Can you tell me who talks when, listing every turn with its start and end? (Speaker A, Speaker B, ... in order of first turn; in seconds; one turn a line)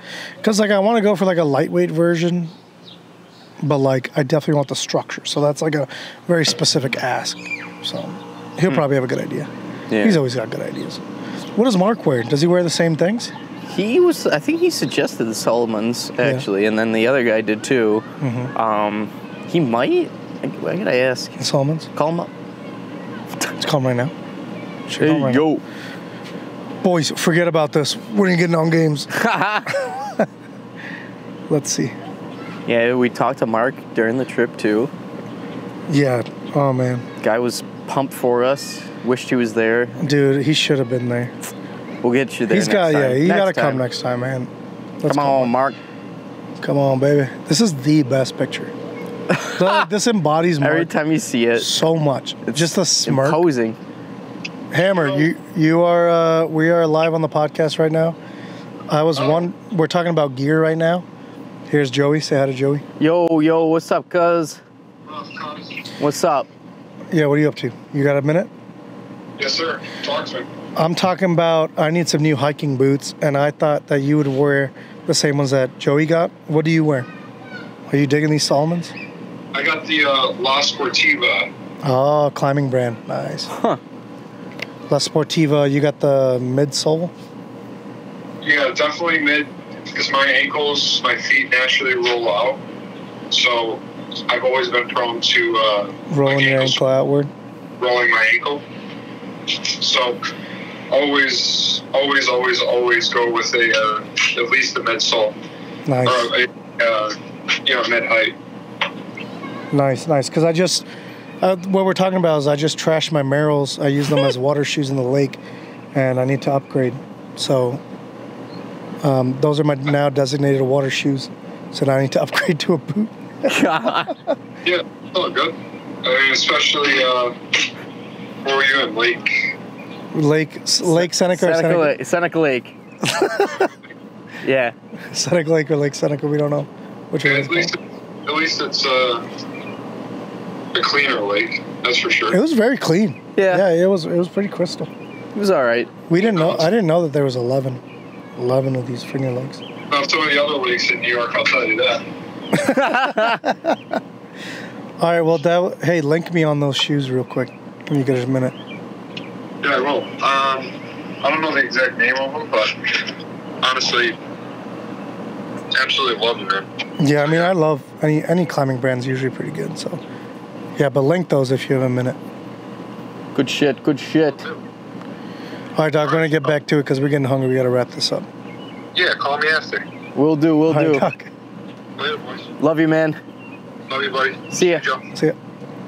Speaker A: 0.4-2.5
Speaker A: 3.6-9.5
Speaker B: 9.9-10.2
Speaker A: 10.0-11.0
Speaker A: 11.5-13.3
Speaker B: 13.7-21.4
Speaker A: 18.2-18.5
Speaker A: 21.4-21.9
Speaker B: 21.9-22.3
Speaker A: 23.6-24.1
Speaker A: 24.9-25.4
Speaker B: 25.0-25.6
Speaker A: 26.8-29.1
Speaker B: 29.1-29.7
Speaker A: 29.7-30.3
Speaker A: 31.5-31.9
Speaker B: 32.6-34.9
Speaker A: 35.9-37.0
Speaker B: 37.2-40.0
Speaker A: 40.0-41.3
Speaker B: 42.0-43.8
Speaker A: 42.5-45.5
Speaker B: 45.1-45.8
Speaker A: 46.6-48.7
Speaker B: 49.3-49.9
Speaker A: 49.5-50.9
Speaker B: 50.6-51.8
Speaker A: 51.6-53.4
Speaker B: 52.4-53.8
Speaker A: 54.7-58.2
Speaker C: 54.9-55.3
Speaker A: 58.9-61.0
Speaker C: 59.1-59.4
Speaker A: 61.7-62.8
Speaker B: 63.0-64.6
Speaker C: 65.1-65.8
Speaker B: 66.0-66.5
Speaker A: 67.1-68.5
Speaker C: 69.4-70.5
Speaker A: 70.8-77.1
Speaker A: 77.9-78.9
Speaker C: 79.5-81.5
Speaker A: 81.8-83.5
Speaker B: 83.5-83.8
Speaker A: 84.9-87.1
Speaker C: 88.4-92.6
Speaker C: 93.3-96.8
Speaker A: 96.1-97.3
Speaker C: 97.8-98.6
Speaker C: 99.5-100.2
Speaker C: 100.9-105.3
Speaker A: 105.8-106.3
Speaker C: 106.0-107.1
Speaker C: 107.7-108.3
Speaker A: 109.7-110.9
Speaker A: 111.4-115.4
Speaker A: 115.9-117.8
Speaker A: 119.0-124.3
Speaker B: 123.5-124.2
Speaker C: 124.6-127.4
Speaker C: 128.4-129.3
Speaker A: 130.1-131.9
Speaker B: 130.8-132.7
Speaker A: 133.0-133.7
Speaker B: 134.4-134.7
Speaker A: 135.1-137.7
Speaker C: 137.2-139.2
Speaker C: 140.7-142.4
Speaker A: 142.3-144.9
Speaker B: 143.3-143.7
Speaker B: 145.3-145.9
Speaker A: 146.1-147.8
Speaker C: 146.2-146.6
Speaker A: 148.4-149.6
Speaker C: 149.9-152.0
Speaker A: 152.5-154.0
Speaker B: 152.6-153.5
Speaker A: 155.0-158.5
Speaker C: 159.6-163.1
Speaker C: 163.6-164.2
Speaker C: 165.7-166.7
Speaker A: 167.0-170.0
Speaker C: 167.2-167.5
Speaker A: 170.8-172.2
Speaker B: 173.3-174.4
Speaker A: 175.8-178.3
Speaker C: 178.9-179.8
Speaker B: 180.1-181.1
Speaker A: 180.7-181.3
Speaker C: 182.0-182.5
Speaker B: 182.6-183.2
Speaker C: 183.9-185.0
Speaker B: 184.5-184.8